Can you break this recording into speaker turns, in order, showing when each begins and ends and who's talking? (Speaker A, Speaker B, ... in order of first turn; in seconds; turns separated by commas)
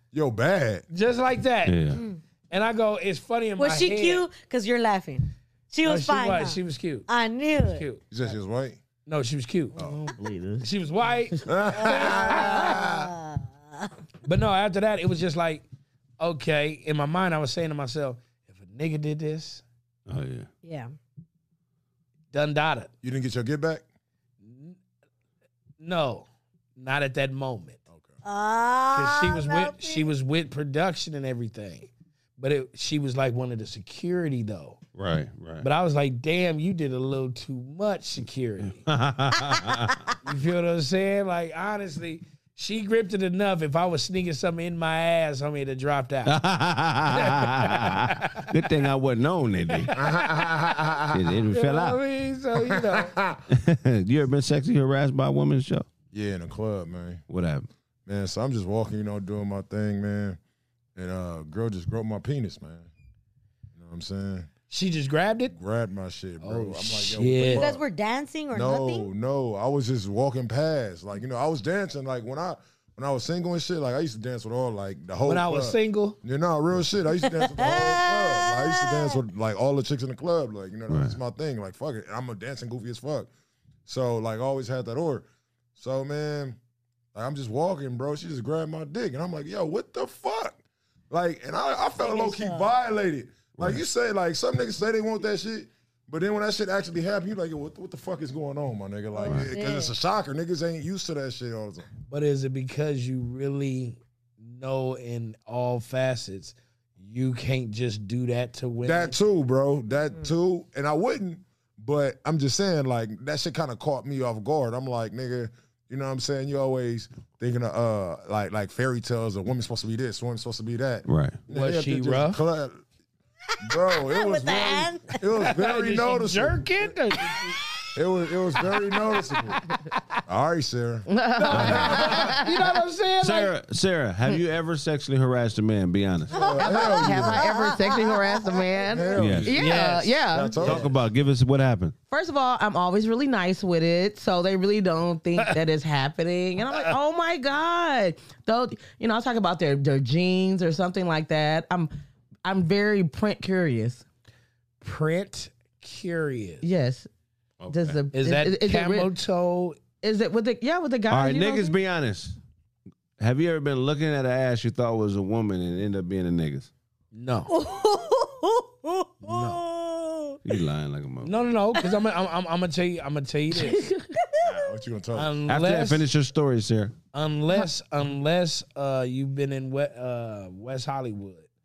Speaker A: 0.1-0.8, Speaker B: 0.9-1.8, Speaker C: 1.6-2.0, Speaker D: 1.9-2.2, Speaker B: 2.5-4.2, Speaker D: 3.6-7.8, Speaker B: 5.8-7.1, Speaker B: 7.6-8.0, Speaker A: 8.1-8.8, Speaker B: 9.1-9.7, Speaker E: 9.8-10.7, Speaker B: 10.6-12.8, Speaker A: 11.4-13.1, Speaker D: 11.7-13.9, Speaker B: 14.2-15.6, Speaker B: 16.2-19.6, Speaker C: 20.1-20.5, Speaker D: 20.6-20.9, Speaker B: 22.3-22.9, Speaker A: 23.0-23.8, Speaker B: 24.4-24.8, Speaker B: 25.8-26.2, Speaker B: 26.8-27.8, Speaker A: 27.9-28.2, Speaker D: 28.2-30.1, Speaker B: 28.9-34.8, Speaker C: 34.9-35.7, Speaker B: 35.6-38.9, Speaker C: 38.6-40.0, Speaker B: 40.2-46.4, Speaker C: 46.2-49.9, Speaker B: 47.1-48.5, Speaker B: 49.8-50.5, Speaker A: 49.9-51.4, Speaker C: 51.1-52.0, Speaker B: 51.5-53.2, Speaker A: 52.5-53.4, Speaker C: 53.5-55.9, Speaker A: 56.1-57.2, Speaker C: 57.3-57.7, Speaker A: 58.0-60.4, Speaker A: 61.0-62.9, Speaker A: 63.8-64.5, Speaker B: 64.7-65.5, Speaker A: 65.5-67.8, Speaker B: 66.4-67.7, Speaker D: 67.4-69.1, Speaker A: 68.5-83.3, Speaker B: 75.2-76.2, Speaker D: 77.2-79.2, Speaker C: 80.9-81.2, Speaker A: 83.8-86.6, Speaker A: 87.1-90.6, Speaker A: 91.1-101.9, Speaker D: 92.0-92.7, Speaker C: 93.6-93.8, Speaker D: 99.1-99.9, Speaker C: 99.2-99.5, Speaker B: 102.1-109.2, Speaker A: 108.8-122.8, Speaker C: 121.1-121.4, Speaker B: 121.5-122.4, Speaker A: 123.6-126.9, Speaker D: 123.7-125.2, Speaker B: 125.4-127.6, Speaker A: 127.9-129.6, Speaker A: 130.3-132.3, Speaker E: 131.1-132.6, Speaker B: 131.4-133.5, Speaker C: 131.5-132.1, Speaker C: 133.2-136.4, Speaker A: 136.3-137.5, Speaker D: 136.3-138.6, Speaker E: 136.6-140.8, Speaker A: 138.8-139.7, Speaker C: 139.2-139.5, Speaker B: 139.4-140.2, Speaker A: 140.3-141.0, Speaker C: 140.6-141.9, Speaker E: 142.1-151.9, Speaker E: 152.4-154.0, Speaker B: 154.8-156.6, Speaker E: 156.6-157.1, Speaker C: 157.6-158.0, Speaker E: 157.7-159.1, Speaker B: 158.1-159.8, Speaker E: 160.0-161.8, Speaker C: 161.1-162.4, Speaker C: 163.2-166.7, Speaker B: 167.1-167.5, Speaker D: 167.5-170.4, Speaker B: 169.2-169.6, Speaker C: 170.4-171.3, Speaker B: 171.2-173.9, Speaker E: 173.6-174.1, Speaker A: 174.4-175.3, Speaker B: 175.1-176.1, Speaker C: 175.5-176.9, Speaker B: 177.1-181.5